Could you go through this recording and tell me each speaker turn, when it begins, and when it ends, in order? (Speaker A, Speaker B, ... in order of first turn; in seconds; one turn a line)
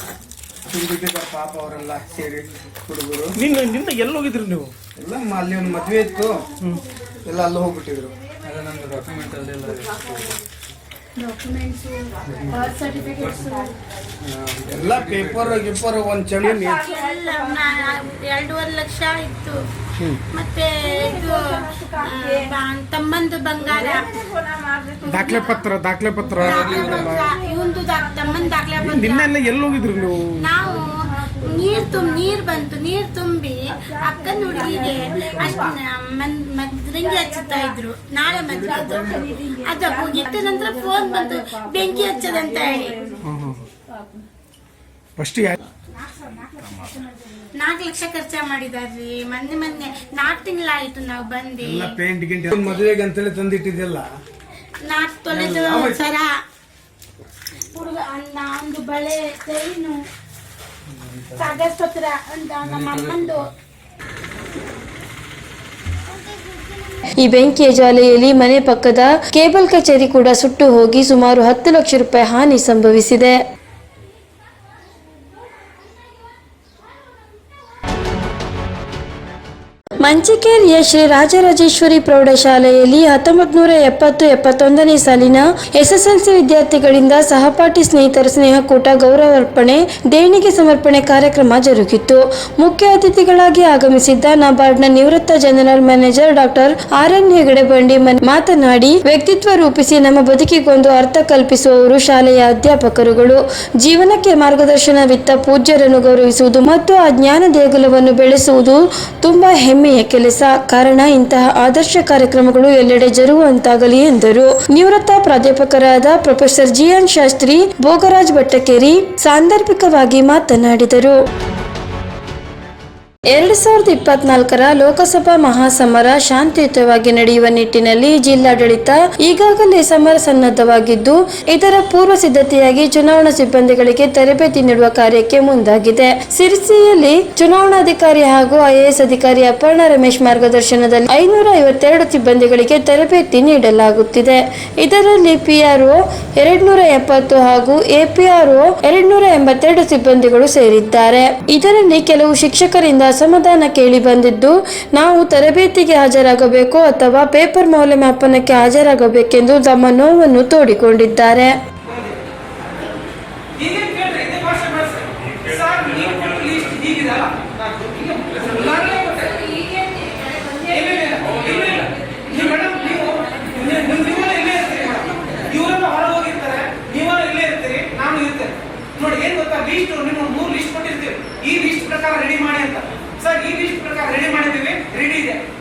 Speaker A: 0.7-3.4
Speaker B: 3.4-4.7
Speaker A: 5.0-6.5
Speaker A: 7.2-8.1
Speaker C: 11.2-11.9
Speaker A: 14.5-16.8
Speaker B: 16.5-16.8
Speaker C: 16.8-19.6
Speaker C: 20.4-24.2
Speaker B: 25.1-27.2
Speaker C: 26.4-29.3
Speaker A: 26.6-27.0
Speaker B: 28.8-30.4
Speaker C: 30.4-43.2
Speaker A: 38.4-39.3
Speaker B: 43.2-43.6
Speaker B: 45.2-45.6
Speaker C: 47.6-52.0
Speaker A: 51.6-54.1
Speaker C: 54.9-56.3
Speaker A: 55.3-56.2
Speaker C: 57.7-60.0
Speaker C: 61.4-63.5
Speaker A: 62.7-63.2
Speaker D: 67.2-73.4
Speaker D: 80.0-121.2
Speaker D: 123.3-161.6
Speaker E: 163.6-169.5
Speaker E: 170.6-185.4